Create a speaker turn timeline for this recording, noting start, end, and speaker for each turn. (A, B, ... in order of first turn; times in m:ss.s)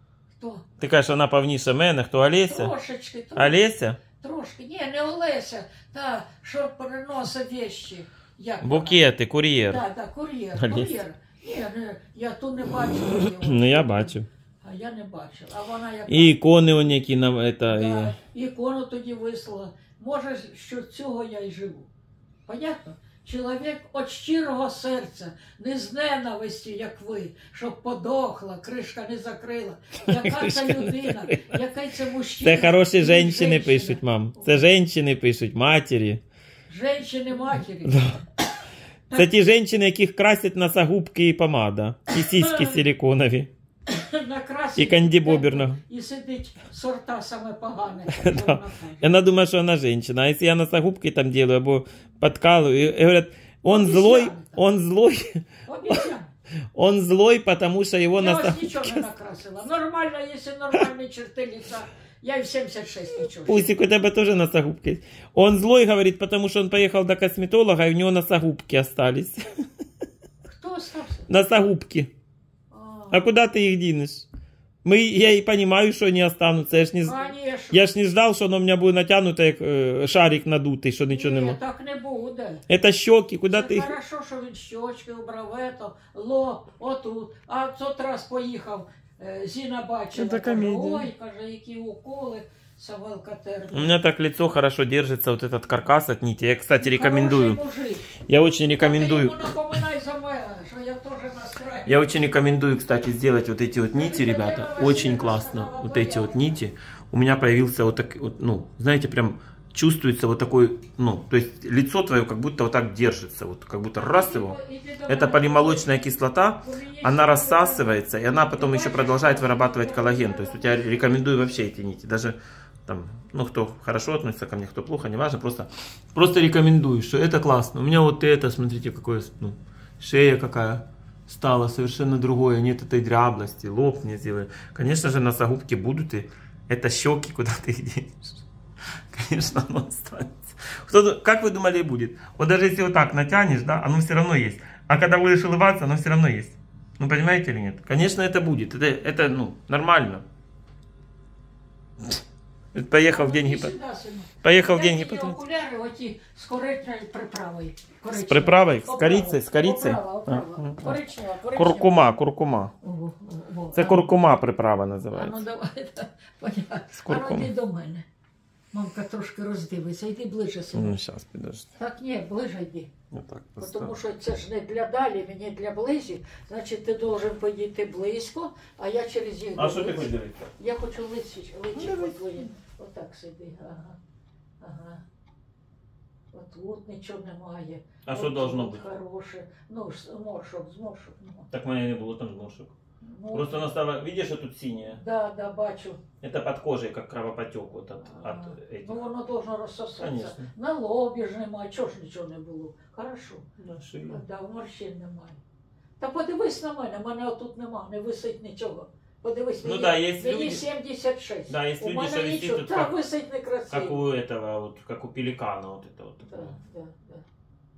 0:00.4-0:00.6 A
0:00.8-0:02.7 B
0:02.4-0:03.6 A
0:03.4-0:04.0 B
0:04.1-0:09.0 A
0:08.6-0:09.8 B
0:09.6-0:16.4 A
0:10.6-0:11.0 B
0:13.2-0:14.3 B
0:16.1-0:18.1 B
0:17.7-0:21.9 A
0:22.5-0:34.7 A
0:30.0-0:31.4 B
0:32.4-0:36.2 B
0:36.7-0:38.1 A
0:37.8-0:38.2 B
0:39.1-0:43.5 B
0:42.1-0:42.9 A
0:43.9-0:49.1 A
0:44.8-0:45.8 B
0:48.1-0:56.0 B
0:53.6-0:54.6 A
0:55.6-0:56.3 A
0:56.7-0:59.0 B
0:58.2-1:03.7 A
1:03.4-1:09.5 B
1:10.4-1:11.3 A
1:11.3-1:12.1 B
1:12.7-1:13.3 A
1:13.1-1:14.3 B
1:14.8-1:21.6 B
1:17.0-1:17.9 A
1:21.1-1:22.6 A
1:22.7-1:23.9 B
1:23.5-1:33.9 A
1:30.1-1:31.1 B
1:33.7-1:37.6 B
1:36.8-1:38.1 A
1:38.3-1:39.8 B
1:38.8-1:42.2 A
1:41.8-1:54.6 B
1:43.9-1:46.5 A
1:54.0-2:01.5 A
1:55.1-2:18.4 B
2:19.1-2:30.2 B
2:32.7-2:33.7 B
2:33.0-2:42.2 A
2:34.4-2:35.4 B
2:38.1-2:41.0 B
2:41.5-2:42.7 B
2:42.8-2:44.1 A
2:43.7-2:45.4 B
2:45.1-2:48.0 A
2:46.9-2:47.5 B
2:48.7-2:51.0 A
2:50.7-2:51.7 B
2:51.8-2:52.9 A
2:53.1-2:53.9 B
2:53.6-3:04.0 A
2:59.6-3:00.5 B
3:01.8-3:02.1 B
3:04.6-3:05.0 A
3:06.3-3:11.5 A
3:08.0-3:08.9 B
3:11.5-3:12.7 B
3:13.0-3:13.7 A
3:13.3-3:15.0 B
3:15.0-3:16.0 A
3:16.2-3:19.0 B
3:18.1-3:23.4 A
3:20.0-3:20.5 B
3:23.6-3:24.2 B
3:24.1-3:25.4 A
3:26.0-3:34.0 A
3:29.6-3:30.6 B
3:31.5-3:32.9 B
3:33.7-3:36.5 B
3:36.2-3:37.2 A